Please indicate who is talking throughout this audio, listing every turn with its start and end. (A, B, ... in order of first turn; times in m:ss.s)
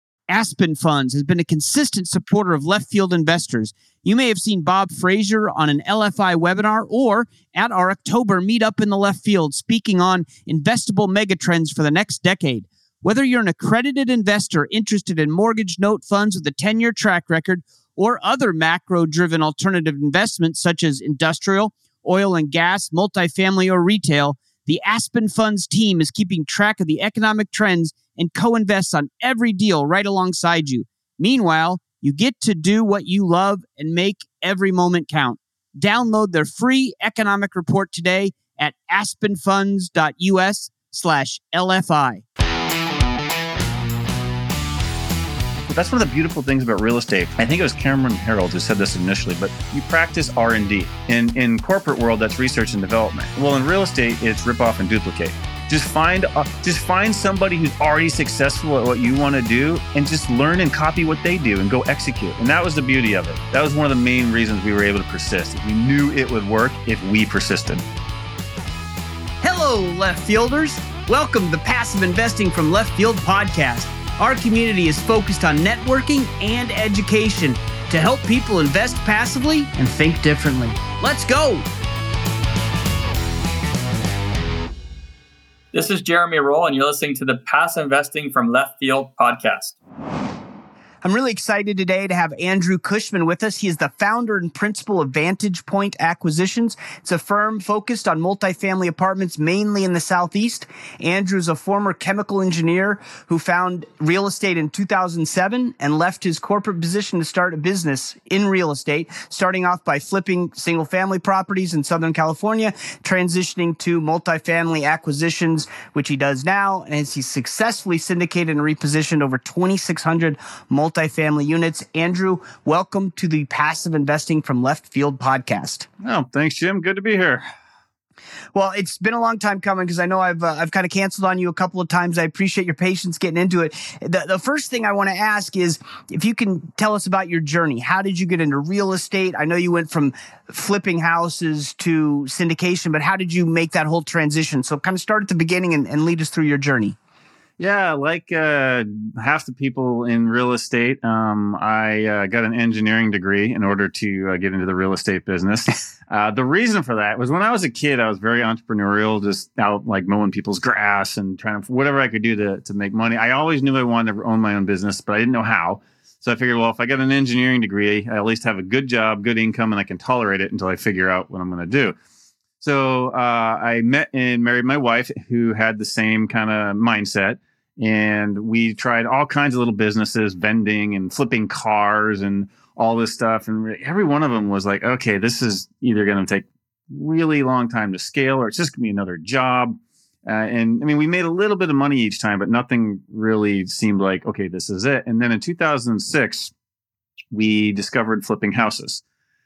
0:00.3-0:42.2 A
0:45.7-1:07.8 B
1:09.4-1:21.6 A
1:25.7-1:29.8 C
1:31.0-2:05.9 A
2:06.0-2:07.4 B
2:08.5-2:27.0 A
2:27.6-2:52.0 B
2:52.6-3:16.5 B
3:17.3-3:19.0 B